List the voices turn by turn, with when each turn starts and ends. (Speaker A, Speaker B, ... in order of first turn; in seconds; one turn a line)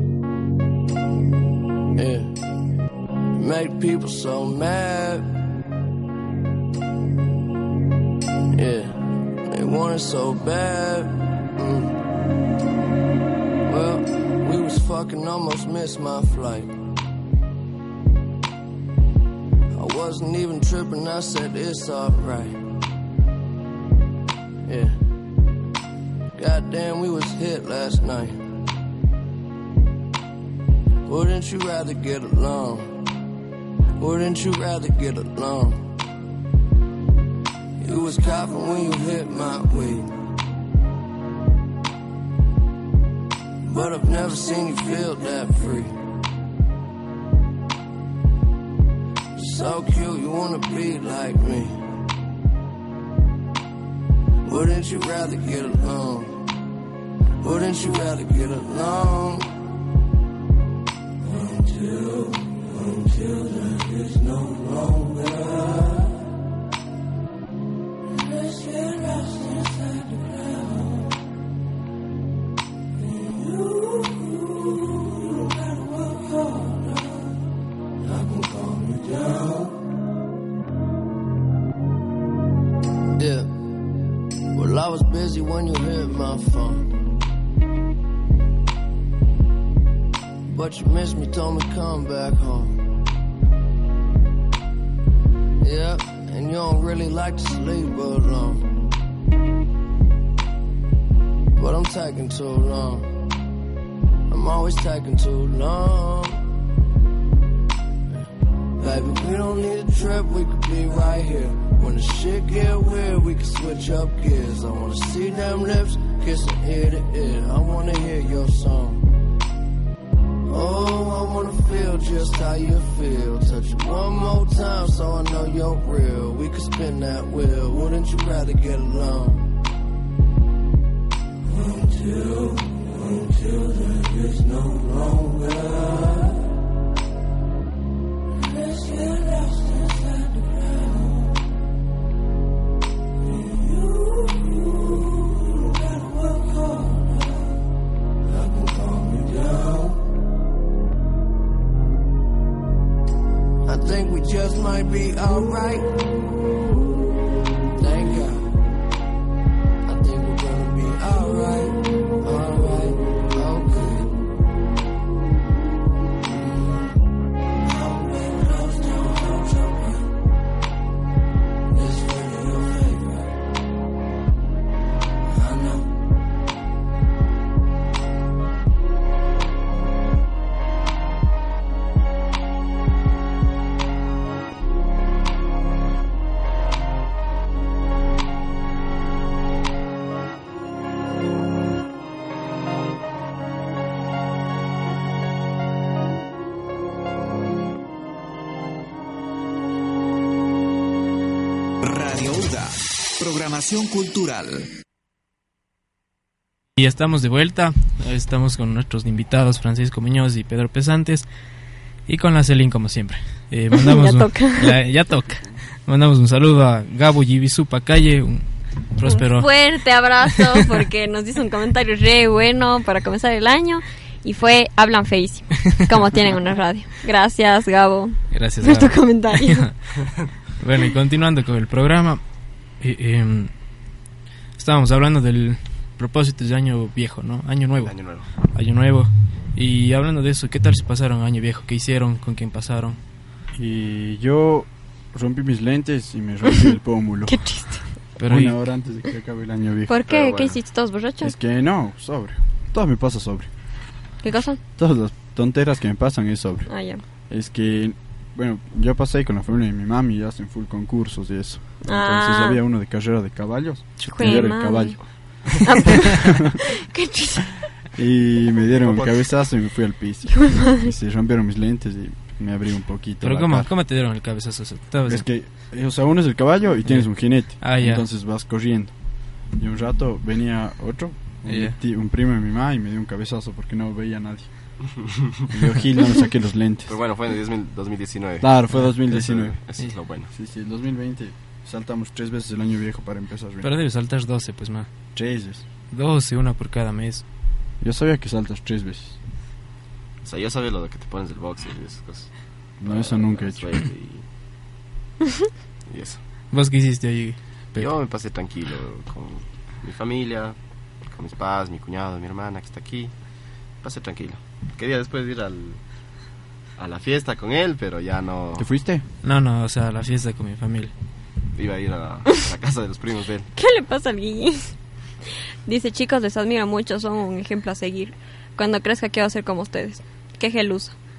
Speaker A: 1.9-2.4
Speaker A: 3.3-5.2
Speaker A: 8.5-12.0
Speaker A: 13.7-16.7
Speaker A: 19.7-22.6
Speaker A: 24.6-25.0
Speaker A: 26.3-28.4
Speaker A: 31.1-33.1
Speaker A: 34.0-35.9
Speaker A: 37.8-40.1
Speaker A: 43.6-46.0
Speaker A: 49.4-51.8
Speaker A: 54.4-56.5
Speaker A: 57.4-59.5
Speaker A: 61.2-66.0
Speaker A: 68.3-70.8
Speaker A: 73.1-74.4
Speaker A: 78.0-79.7
Speaker A: 83.1-83.6
Speaker A: 84.5-86.9
Speaker A: 90.5-92.9
Speaker A: 95.6-98.9
Speaker A: 101.5-103.1
Speaker A: 104.3-106.5
Speaker A: 108.8-119.1
Speaker A: 120.5-129.5
Speaker A: 131.5-136.4
Speaker A: 138.6-141.2
Speaker A: 143.5-145.3
Speaker A: 145.9-147.0
Speaker A: 148.2-150.0
Speaker A: 153.6-156.2
Speaker A: 157.8-158.5
Speaker A: 159.8-164.2
Speaker A: 166.2-166.8
Speaker A: 167.6-170.1
Speaker A: 171.7-173.3
Speaker A: 175.3-175.9
Speaker B: 201.8-204.7
Speaker C: 206.8-211.2
Speaker C: 212.1-220.3
Speaker D: 213.8-214.8
Speaker D: 219.0-229.7
Speaker C: 228.3-229.8
Speaker C: 230.6-232.2
Speaker C: 232.8-233.5
Speaker C: 234.6-243.0
Speaker E: 237.8-238.3
Speaker F: 243.5-247.4
Speaker D: 247.3-247.9
Speaker C: 248.2-248.6
Speaker F: 248.2-250.0
Speaker D: 249.9-251.3
Speaker E: 250.1-250.6
Speaker F: 251.2-253.5
Speaker D: 254.2-254.6
Speaker F: 254.8-256.7
Speaker D: 256.7-257.0
Speaker F: 257.3-266.4
Speaker D: 261.8-262.6
Speaker D: 264.0-267.6
Speaker F: 267.9-273.7
Speaker E: 268.8-269.2
Speaker D: 270.3-270.8
Speaker C: 273.2-275.2
Speaker F: 275.1-278.9
Speaker C: 276.9-278.0
Speaker F: 279.5-284.5
Speaker C: 281.5-281.8
Speaker F: 285.5-286.9
Speaker E: 286.9-290.3
Speaker F: 288.4-289.6
Speaker F: 290.3-293.7
Speaker C: 293.6-294.9
Speaker F: 295.1-295.6
Speaker C: 295.9-297.2
Speaker F: 297.8-299.2
Speaker E: 300.2-302.3
Speaker F: 302.8-303.7
Speaker E: 302.8-304.2
Speaker E: 305.9-306.2
Speaker C: 306.5-307.9
Speaker E: 307.7-310.6
Speaker E: 311.1-313.1
Speaker E: 313.8-315.8
Speaker E: 316.8-318.7
Speaker F: 318.6-319.0
Speaker C: 319.2-320.9
Speaker E: 321.5-323.5
Speaker D: 323.6-324.7
Speaker D: 325.6-330.9